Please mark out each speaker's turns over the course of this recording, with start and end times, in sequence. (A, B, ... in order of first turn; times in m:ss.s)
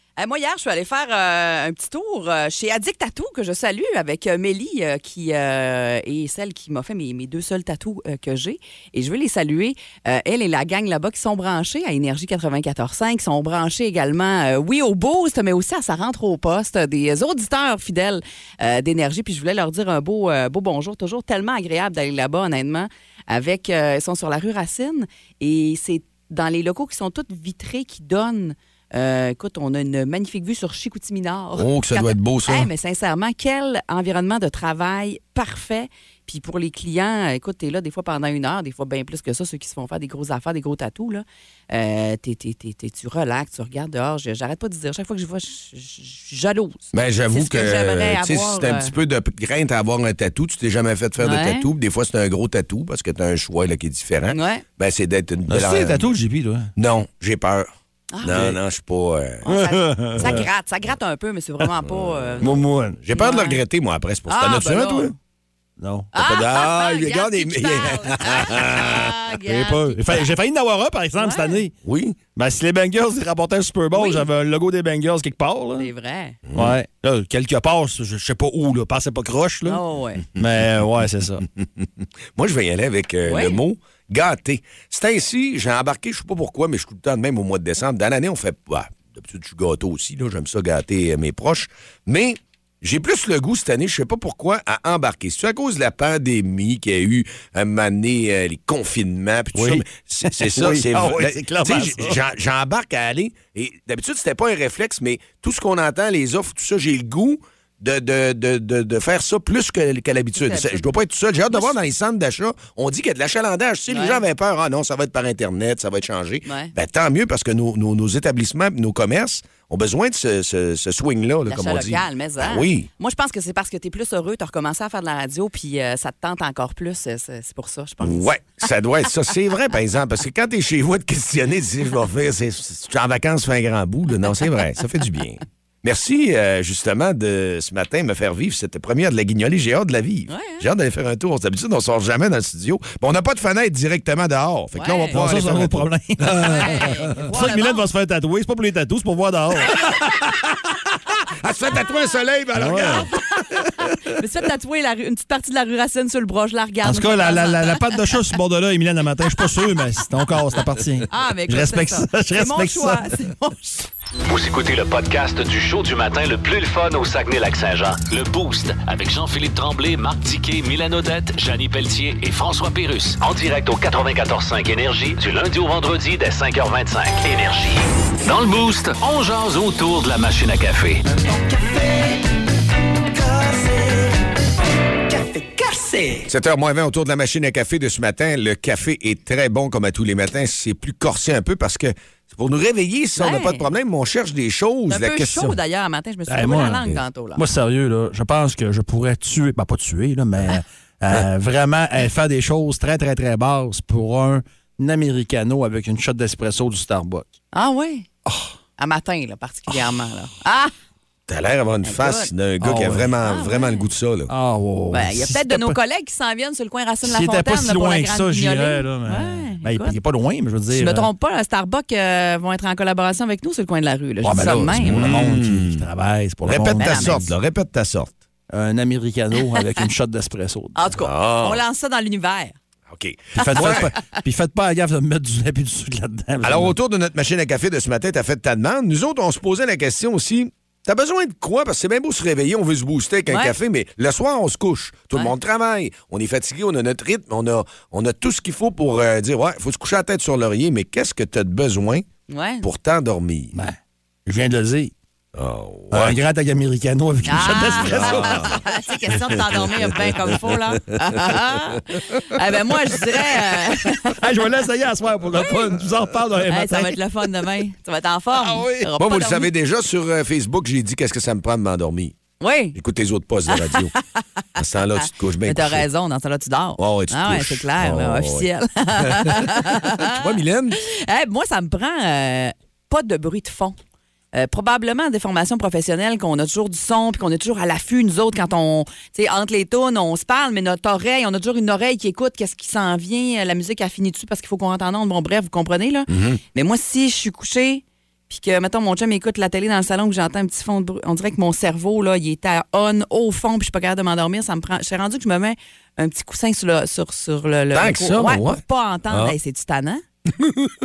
0:00.2-0:48.9 A
0:31.6-0:32.7 B
0:46.9-0:56.1 B
0:51.2-0:51.7 A
0:54.3-0:54.6 A
0:55.5-0:56.7 C
0:56.8-0:57.7 B
0:58.1-0:58.4 A
0:58.2-0:59.4 B
0:58.3-0:58.6 C
0:59.4-1:02.6 A
0:59.4-1:00.5 C
1:01.8-1:02.5 B
1:02.4-1:03.0 C
1:03.0-1:05.1 B
1:03.1-1:03.6 A
1:04.3-1:05.2 A
1:05.8-1:06.1 C
1:06.1-1:10.2 A
1:06.2-1:09.1 B
1:09.4-1:11.7 C
1:11.2-1:11.6 A
1:11.8-1:12.2 B
1:12.4-1:15.9 C
1:13.9-1:14.2 A
1:15.8-1:16.4 A
1:16.5-1:16.8 B
1:16.5-1:19.8 C
1:19.6-1:20.2 A
1:20.4-1:21.5 C
1:21.6-2:02.9 B
1:23.2-1:23.6 A
1:39.5-1:42.2 C
1:50.4-1:50.8 A
1:51.5-1:51.8 A
1:53.9-1:54.2 A
1:56.5-1:56.7 A
2:01.5-2:08.4 A
2:08.0-2:27.3 B
2:20.3-2:20.7 A
2:24.8-2:25.2 A
2:25.1-2:30.1 C
2:26.4-2:27.8 A
2:31.4-2:33.1 B
2:32.6-2:33.1 C
2:32.8-2:33.4 A
2:34.0-2:38.0 A
2:36.8-2:43.1 C
2:41.1-2:43.9 A
2:44.3-3:01.0 D
3:06.3-3:15.6 B
3:13.2-3:13.7 A
3:14.9-3:17.4 A
3:16.3-3:27.3 C
3:27.5-3:28.1 A
3:28.8-3:30.7 A
3:31.3-3:34.3 B
3:31.8-3:32.3 A
3:32.6-3:33.1 C
3:33.2-3:33.8 A
3:34.3-3:35.8 C
3:34.9-3:40.0 A
3:37.0-3:41.1 C
3:40.7-3:45.1 A
3:44.2-3:47.3 C
3:44.8-3:45.8 B
3:46.4-3:48.2 B
3:46.8-3:47.2 A
3:48.5-3:50.9 C
3:50.8-3:52.6 A
3:51.0-3:51.6 B
3:52.9-3:53.9 B
3:53.4-3:56.8 C
3:53.6-3:54.0 A
3:56.4-4:12.1 B
4:03.3-4:03.6 A
4:12.3-4:12.7 A
4:12.6-4:13.6 B
4:13.5-4:14.9 C
4:15.3-4:16.2 B
4:15.9-4:18.6 C
4:17.3-4:24.2 A
4:17.3-4:18.6 B
4:19.5-4:20.3 B
4:24.0-4:27.0 C
4:26.5-4:29.5 A
4:28.4-4:28.9 C
4:29.0-4:32.2 B
4:32.4-4:32.8 A
4:32.8-4:33.9 B
4:33.5-4:34.0 A
4:34.6-4:35.9 B
4:35.0-4:43.8 A
4:36.8-4:40.8 B
4:44.3-5:10.0 A
4:56.1-4:56.4 B
5:07.7-5:09.4 B
5:10.4-5:10.7 B